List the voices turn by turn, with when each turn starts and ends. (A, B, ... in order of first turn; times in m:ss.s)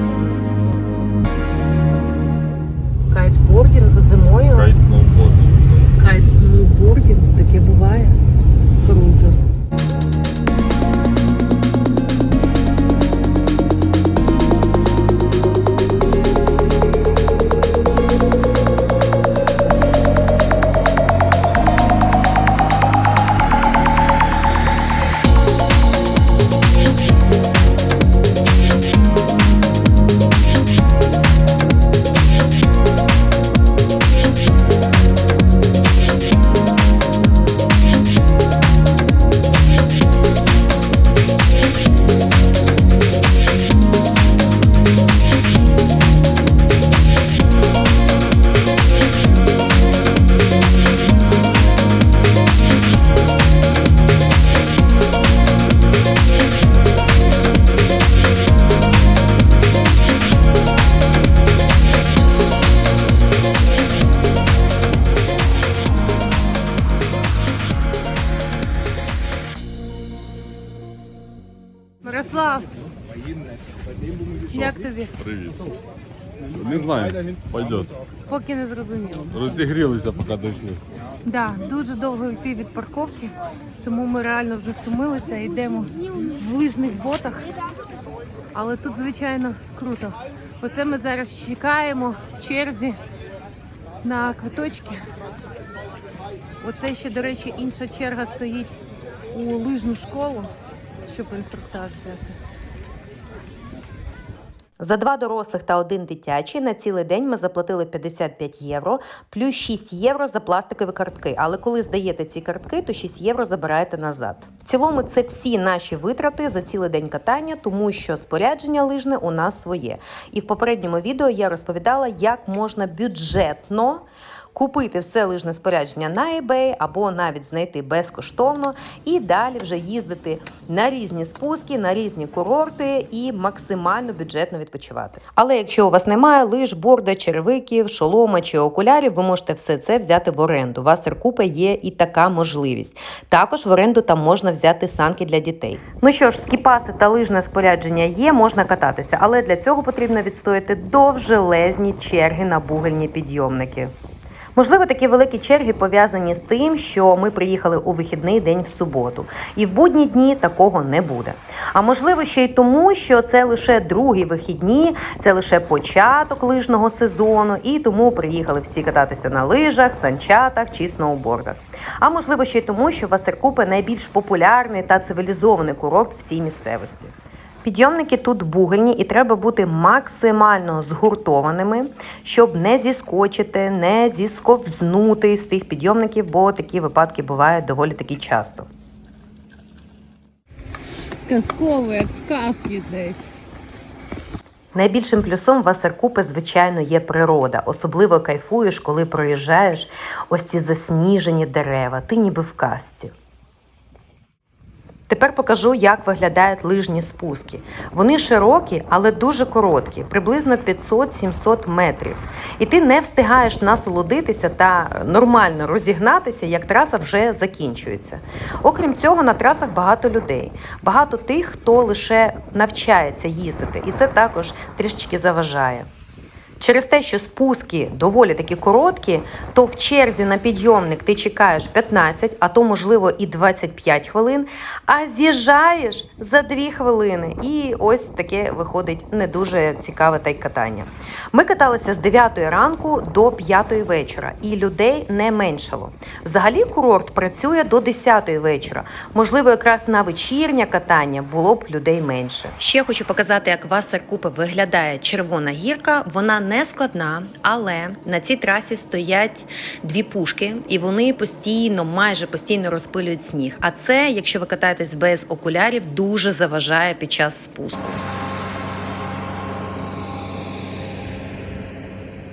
0:03.1-0:04.6 A
0:04.5-0:05.9 B
0:06.0-0:08.2 A
0:08.8-0:09.4 A
1:12.0-1:12.7 C
1:14.5-1:15.1 C
1:15.2-1:15.6 B
1:16.5-1:17.9 B
1:18.3-1:19.3 C
1:19.3-1:20.8 B
1:21.2-1:27.6 C
1:28.5-1:33.0 C
1:34.0-1:35.1 C
1:36.6-1:38.8 C
1:39.3-1:40.5 C
1:41.0-1:42.4 C
1:44.8-2:33.9 A
2:34.5-3:08.7 A
3:11.2-3:13.3 C
3:14.7-3:23.1 A
3:25.1-3:45.9 A
3:46.6-4:28.0 A